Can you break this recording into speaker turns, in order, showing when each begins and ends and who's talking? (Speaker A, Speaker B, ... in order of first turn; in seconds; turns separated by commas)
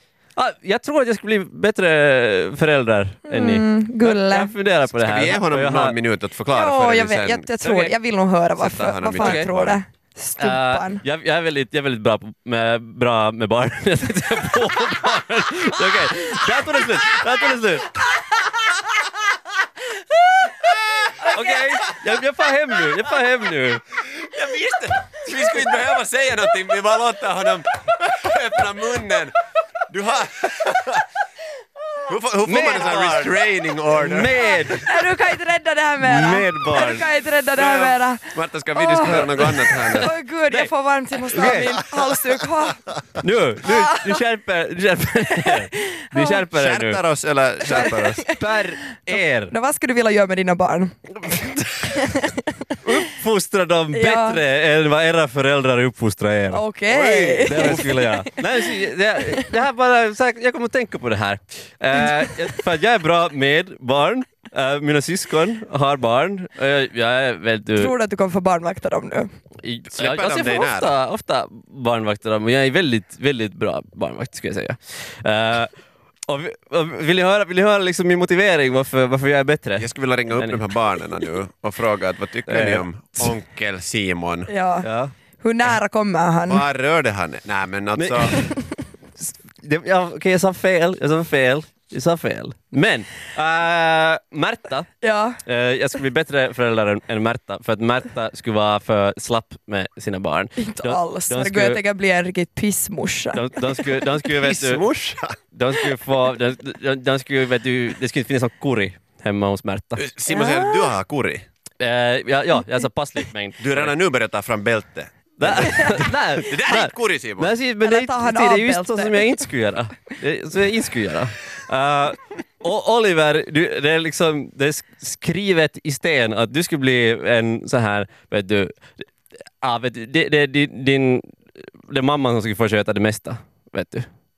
Speaker A: 0.3-6.0, Speaker B: 3.3-4.5, Speaker C: 4.9-7.5, Speaker B: 6.5-11.0, Speaker A: 7.6-8.0, Speaker C: 8.6-9.8, Speaker A: 9.1-9.5, Speaker A: 10.4-18.0, Speaker A: 21.2-23.8, Speaker C: 24.0-29.4, Speaker C: 29.9-31.0, Speaker C: 32.1-34.6, Speaker A: 32.5-35.0, Speaker B: 34.4-42.8, Speaker A: 36.0-37.1, Speaker C: 37.5-40.1, Speaker A: 39.0-41.8, Speaker C: 41.5-41.8, Speaker A: 43.2-47.0, Speaker B: 43.6-44.2, Speaker B: 45.4-46.4, Speaker C: 46.5-48.3, Speaker B: 47.7-48.4, Speaker A: 47.7-49.5, Speaker B: 49.5-51.0, Speaker B: 51.8-52.6, Speaker A: 52.8-56.6, Speaker B: 53.9-54.4, Speaker B: 56.5-58.4, Speaker C: 56.9-57.9, Speaker A: 57.5-67.9, Speaker B: 67.8-69.3, Speaker A: 69.6-75.7, Speaker C: 70.0-70.9, Speaker A: 76.3-80.6, Speaker C: 79.8-84.5, Speaker A: 82.5-83.3, Speaker B: 84.5-84.9, Speaker A: 84.8-85.1, Speaker B: 85.4-86.7, Speaker C: 86.5-88.4, Speaker A: 88.0-88.5, Speaker A: 89.2-94.9, Speaker B: 95.0-95.4, Speaker A: 95.4-101.8, Speaker B: 100.6-104.0, Speaker A: 103.3-110.0, Speaker C: 104.4-105.4, Speaker C: 110.0-111.4, Speaker B: 110.3-111.0, Speaker A: 111.8-113.9, Speaker C: 113.6-117.5, Speaker A: 115.4-128.8, Speaker B: 115.7-116.0, Speaker B: 117.8-119.5, Speaker A: 129.6-131.2, Speaker A: 131.9-134.1